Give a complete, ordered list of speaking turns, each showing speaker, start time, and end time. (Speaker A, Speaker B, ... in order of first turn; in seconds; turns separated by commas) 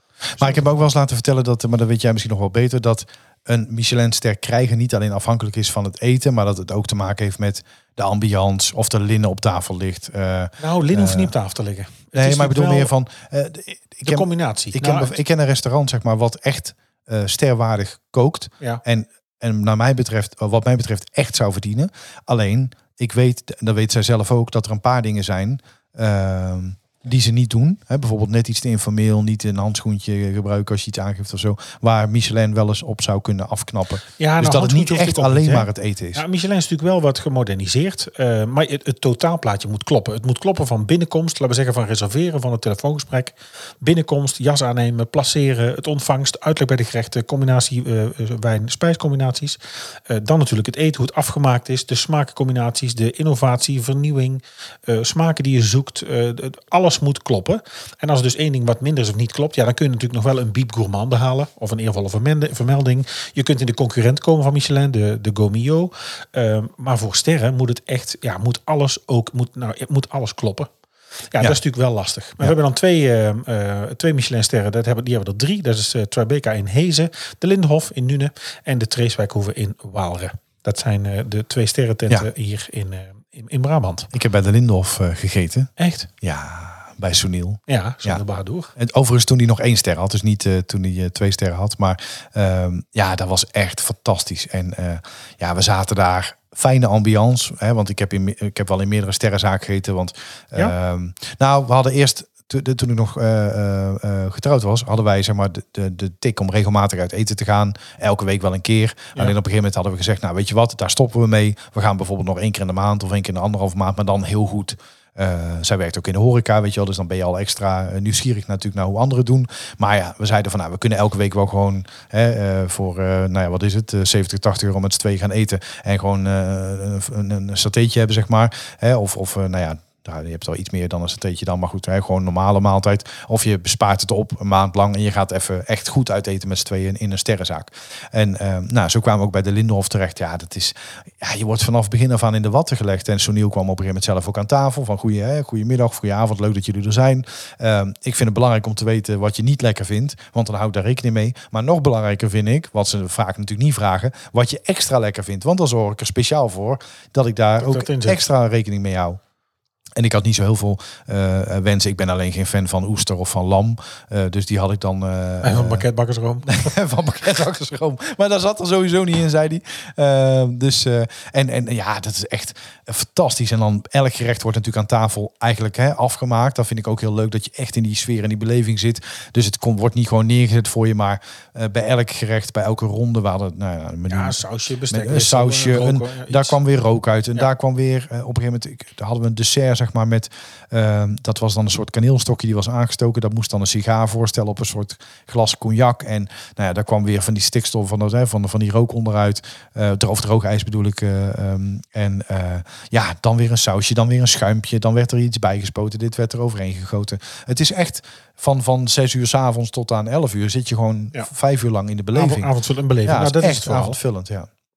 Speaker A: 0.3-11.3, Speaker B: 0.4-0.8, Speaker B: 10.6-12.9, Speaker A: 12.1-36.2, Speaker B: 14.0-15.1, Speaker B: 34.2-70.7, Speaker B: 71.3-84.1, Speaker A: 84.1-88.2, Speaker B: 85.8-86.1, Speaker B: 87.7-88.7, Speaker A: 88.8-159.2, Speaker B: 157.6-158.2, Speaker A: 159.9-165.9, Speaker B: 165.4-166.7, Speaker A: 166.5-184.4, Speaker B: 184.1-186.6, Speaker A: 184.9-212.5, Speaker B: 212.1-214.0, Speaker A: 213.0-214.5